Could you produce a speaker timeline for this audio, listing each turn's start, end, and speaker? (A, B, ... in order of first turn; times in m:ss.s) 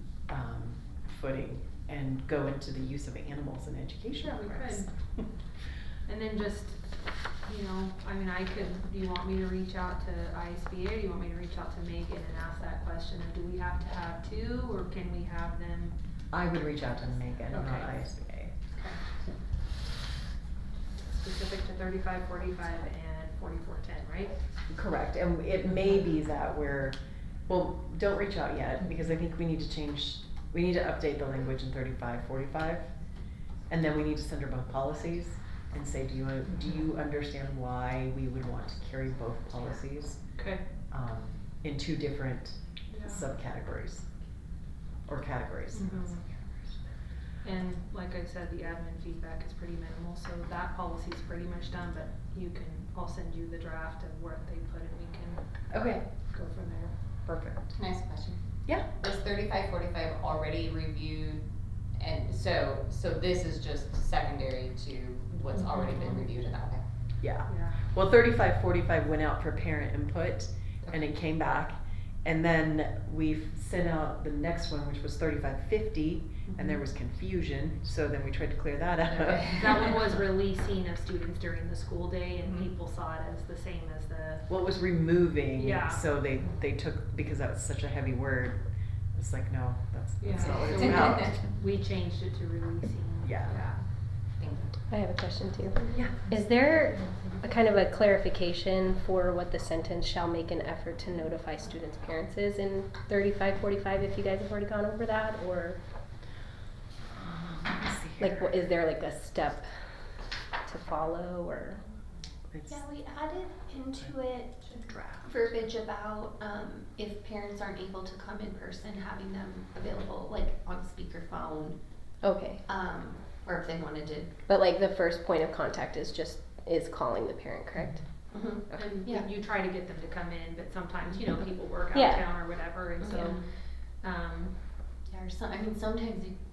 0:00.3-0:04.9 A
0:04.2-0:05.2 B
0:06.1-0:16.0 B
0:16.3-0:18.6 A
0:17.5-0:18.0 B
0:18.7-0:19.0 B
0:21.0-0:24.4 B
0:24.7-0:32.9 A
0:33.7-0:40.2 A
0:40.4-0:40.6 B
0:40.9-0:44.1 A
0:42.9-0:43.3 B
0:45.1-0:46.4 A
0:45.7-0:46.2 B
0:47.4-0:55.5 B
0:55.7-0:56.0 A
0:56.3-0:56.9 B
0:57.2-0:57.8 A
0:57.8-0:58.4 C
0:59.0-1:01.4 C
1:02.0-1:06.8 C
1:07.2-1:20.0 A
1:07.5-1:07.8 B
1:19.1-1:19.8 C
1:19.5-1:24.5 B
1:22.4-1:22.7 C
1:24.5-1:28.6 A
1:25.6-1:26.0 B
1:29.1-1:31.4 A
1:30.2-1:33.8 B
1:30.6-1:30.9 C
1:33.2-1:33.6 A
1:34.4-1:34.8 C
1:34.9-1:45.8 D
1:35.8-1:36.2 E
1:35.9-1:36.2 A
1:47.1-1:48.6 A
1:48.2-1:49.6 D
1:50.7-1:51.8 D
1:52.5-1:52.8 A
1:52.7-2:01.8 E
1:54.8-1:55.5 A
2:02.2-2:02.7 D
2:02.7-2:04.4 E
2:04.5-2:08.1 D
2:08.3-2:09.3 E
2:08.7-2:09.0 D
2:08.8-2:14.6 B
2:11.9-2:12.4 D
2:13.0-2:13.5 E
2:15.1-2:16.4 E